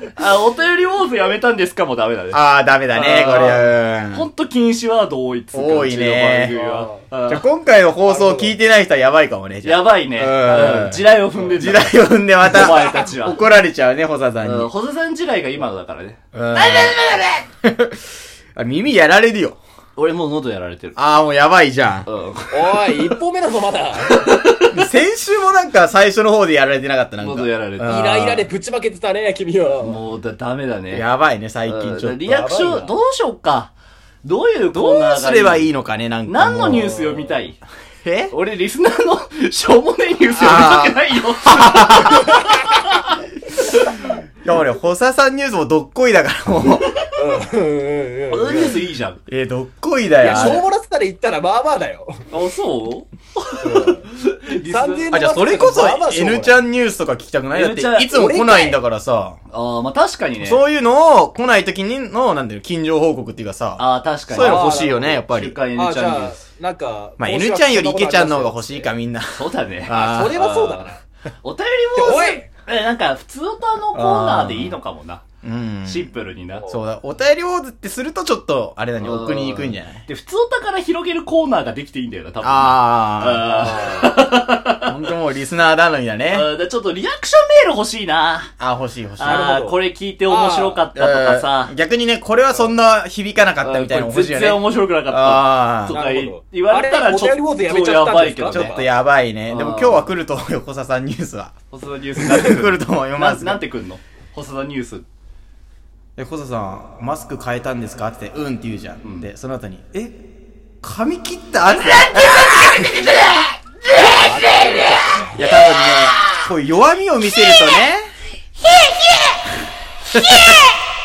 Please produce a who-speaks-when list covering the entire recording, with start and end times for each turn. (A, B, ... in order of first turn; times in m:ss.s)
0:00.2-0:07.4 A
0:02.3-0:04.2 B
0:05.5-0:06.6 B
0:06.5-0:07.0 C
0:07.3-0:14.7 B
0:08.0-0:08.5 C
0:09.6-0:13.4 A
0:14.4-0:17.4 A
0:16.3-0:17.0 B
0:17.6-0:18.0 B
0:18.6-0:19.6 B
0:20.0-0:21.0 A
0:21.0-0:22.1 B
0:22.0-0:23.1 A
0:22.5-0:24.3 C
0:24.2-0:24.8 A
0:24.7-0:28.4 B
0:27.2-0:28.2 A
0:27.8-0:30.0 C
0:29.8-0:31.0 A
0:30.9-0:32.4 B
0:31.6-0:33.7 A
0:32.2-0:32.9 C
0:34.2-0:35.7 A
0:34.7-0:36.9 B
0:36.2-0:37.6 A
0:36.8-0:37.1 C
0:38.0-0:38.3 B
0:38.3-0:44.1 A
0:40.4-0:42.3 B
0:44.4-0:46.9 B
0:47.2-0:48.8 C
0:48.3-0:49.2 A
0:49.3-0:50.6 B
0:50.2-0:52.2 C
0:50.3-0:50.6 A
0:52.3-0:55.0 A
0:53.6-0:56.6 C
0:55.1-0:59.4 B
0:57.5-0:58.1 A
0:58.1-0:58.8 C
0:59.5-1:00.6 A
1:00.4-1:05.6 B
1:03.8-1:06.4 A
1:04.4-1:05.2 C
1:05.7-1:08.9 C
1:07.2-1:10.4 B
1:09.3-1:10.9 A
1:09.9-1:11.0 C
1:11.4-1:15.2 A
1:12.0-1:12.5 C
1:13.9-1:14.7 B
1:15.4-1:16.1 B
1:15.8-1:16.7 A
1:16.7-1:20.0 B
1:19.0-1:24.9 A
1:22.4-1:23.7 B
1:23.4-1:24.1 C
1:24.8-1:26.5 B
1:26.3-1:28.5 A
1:28.6-1:29.5 B
1:29.2-1:31.7 A
1:29.2-1:30.8 C
1:30.9-1:36.0 B
1:33.6-1:38.7 A
1:35.9-1:38.9 C
1:38.5-1:41.5 B
1:39.5-1:40.1 A
1:41.7-1:45.0 A
1:42.2-1:43.6 B
1:46.2-1:50.1 B
1:50.8-1:52.5 B
1:53.9-1:55.4 C
1:55.4-1:58.1 B
2:00.1-2:00.6 B